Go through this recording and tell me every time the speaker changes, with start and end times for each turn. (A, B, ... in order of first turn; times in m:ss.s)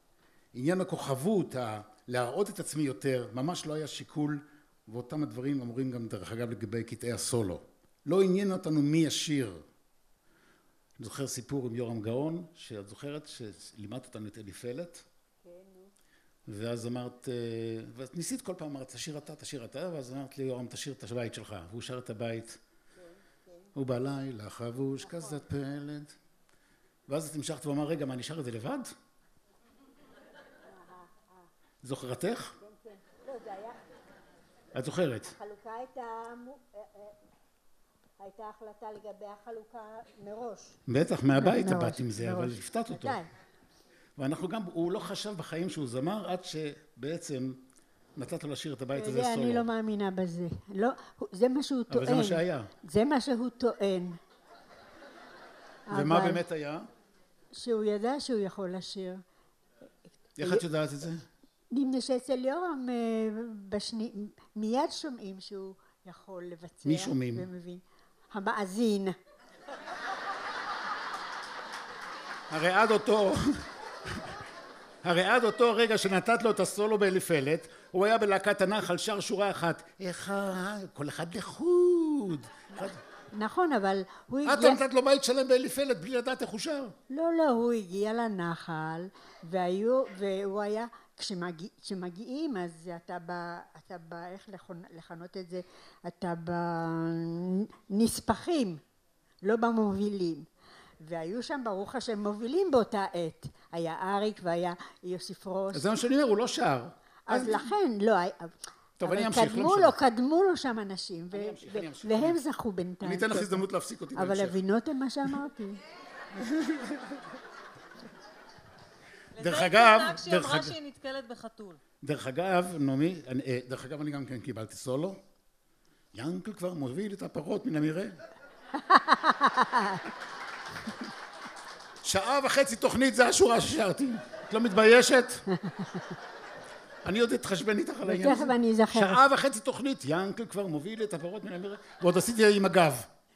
0:00.5-0:09.6 A
0:11.0-0:15.0 A
0:15.4-0:15.9 B
0:16.5-0:22.6 A
0:23.0-0:23.7 B
0:23.8-0:26.1 A
0:25.0-0:25.4 B
0:27.1-0:28.9 A
0:30.7-0:31.4 B
0:31.8-0:32.5 A
0:32.6-0:33.8 B
0:34.7-0:35.3 A
0:35.3-0:37.1 B
0:38.2-0:40.8 B
0:40.9-0:43.2 A
0:41.4-0:43.3 B
0:44.2-0:47.6 A
0:48.2-0:49.7 A
0:48.9-0:54.2 B
0:51.9-0:52.7 A
0:55.9-0:56.4 B
0:55.9-0:56.9 A
0:57.5-0:59.2 B
1:00.4-1:01.2 A
1:01.7-1:09.2 B
1:06.8-1:07.5 A
1:12.5-1:13.4 A
1:15.0-1:22.9 A
1:22.7-1:24.7 B
1:24.4-1:26.9 A
1:27.1-1:38.8 B
1:39.4-1:40.5 B
1:41.0-1:45.8 B
1:45.7-1:47.7 A
1:47.3-1:53.6 B
1:49.0-1:50.0 A
1:51.3-1:52.4 A
1:53.0-1:54.6 A
1:54.2-1:55.8 B
1:59.4-2:01.8 C
1:59.4-2:00.7 A
2:02.0-2:05.2 A
2:06.1-2:08.2 A
2:08.8-2:10.0 B
2:12.0-2:15.4 A
2:15.7-2:16.0 B
2:17.0-2:23.0 A
2:18.0-2:19.2 B